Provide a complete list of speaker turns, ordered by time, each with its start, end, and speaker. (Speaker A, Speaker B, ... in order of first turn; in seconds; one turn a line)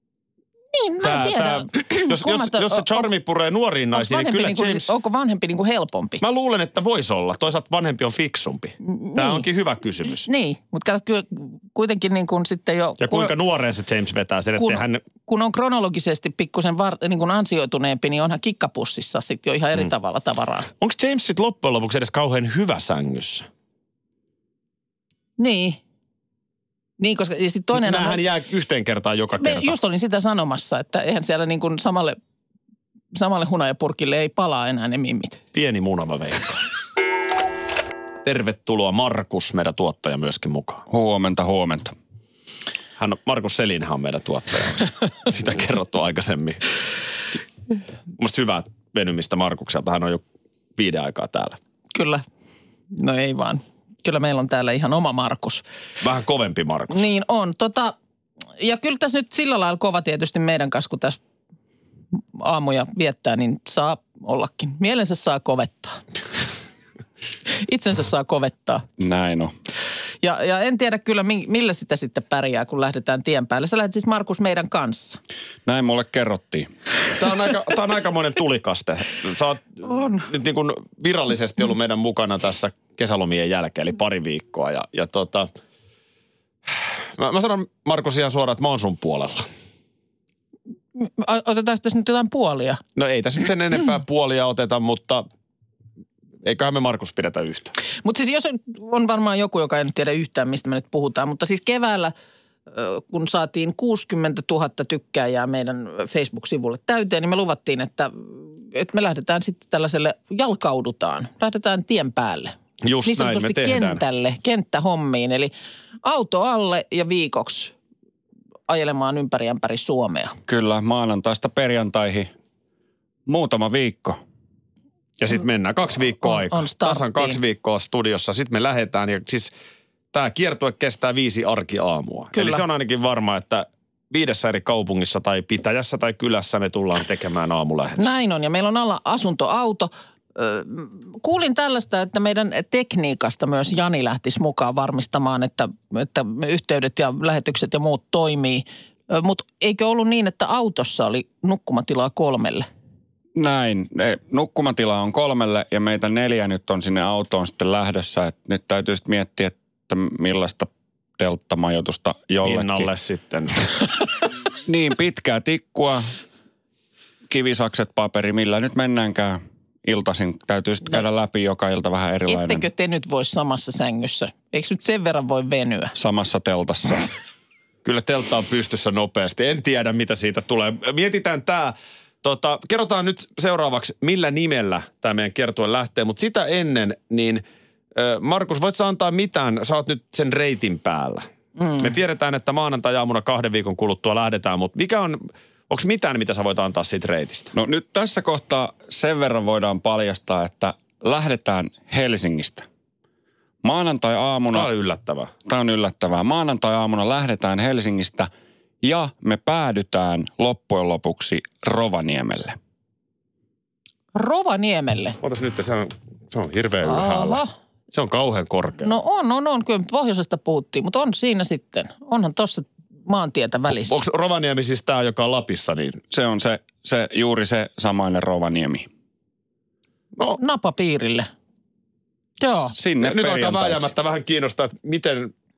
Speaker A: 0.7-3.1
Speaker B: 1.0-4.9
Speaker A: 3.9-6.2
Speaker B: 6.2-10.3
Speaker A: 8.8-9.4
Speaker A: 10.2-13.3
Speaker B: 13.0-15.0
Speaker A: 14.6-20.7
Speaker B: 20.8-23.5
Speaker A: 25.4-25.8
Speaker A: 27.0-28.2
Speaker B: 27.7-29.7
Speaker A: 29.4-32.2
Speaker A: 33.1-35.4
Speaker B: 35.5-36.6
Speaker B: 38.2-40.8
Speaker C: 40.9-41.9
Speaker B: 43.0-46.6
Speaker B: 48.2-50.2
Speaker B: 50.8-51.6
Speaker A: 51.9-52.2
Speaker A: 52.9-55.6
Speaker B: 56.0-57.0
Speaker A: 56.9-57.9
Speaker A: 58.6-61.2
Speaker A: 62.3-66.0
Speaker A: 67.6-68.8
Speaker C: 69.0-69.5
Speaker A: 70.2-75.2
Speaker C: 75.7-76.7
Speaker B: 77.2-85.5
Speaker A: 79.8-80.3
Speaker B: 86.7-89.5
Speaker A: 91.0-92.8
Speaker B: 93.0-95.2
Speaker B: 96.4-97.7
Speaker A: 98.0-102.1
Speaker A: 102.7-115.5
Speaker B: 112.8-114.0
Speaker A: 116.0-117.7
Speaker A: 118.7-120.3
Speaker C: 120.5-122.3
Speaker C: 123.3-124.2
Speaker B: 125.2-129.5
Speaker A: 126.2-127.4
Speaker B: 130.1-138.1
Speaker A: 132.3-132.6
Speaker A: 138.0-152.7
Speaker C: 153.3-162.9
Speaker B: 162.4-163.6
Speaker C: 164.7-166.1
Speaker C: 167.3-172.7
Speaker A: 172.3-175.9
Speaker C: 175.9-177.1
Speaker B: 177.8-187.4
Speaker B: 187.9-191.2
Speaker A: 191.6-191.9
Speaker B: 191.8-197.5
Speaker C: 197.5-202.7
Speaker C: 203.6-204.7
Speaker B: 204.5-205.3
Speaker C: 205.4-208.3
Speaker C: 208.8-212.6
Speaker A: 214.1-215.2
Speaker B: 215.2-218.9
Speaker A: 216.8-217.5
Speaker A: 218.8-224.0
Speaker B: 223.8-226.0
Speaker C: 226.1-228.9
Speaker A: 230.3-231.3
Speaker A: 232.4-232.7
Speaker C: 232.7-233.9
Speaker B: 233.0-235.3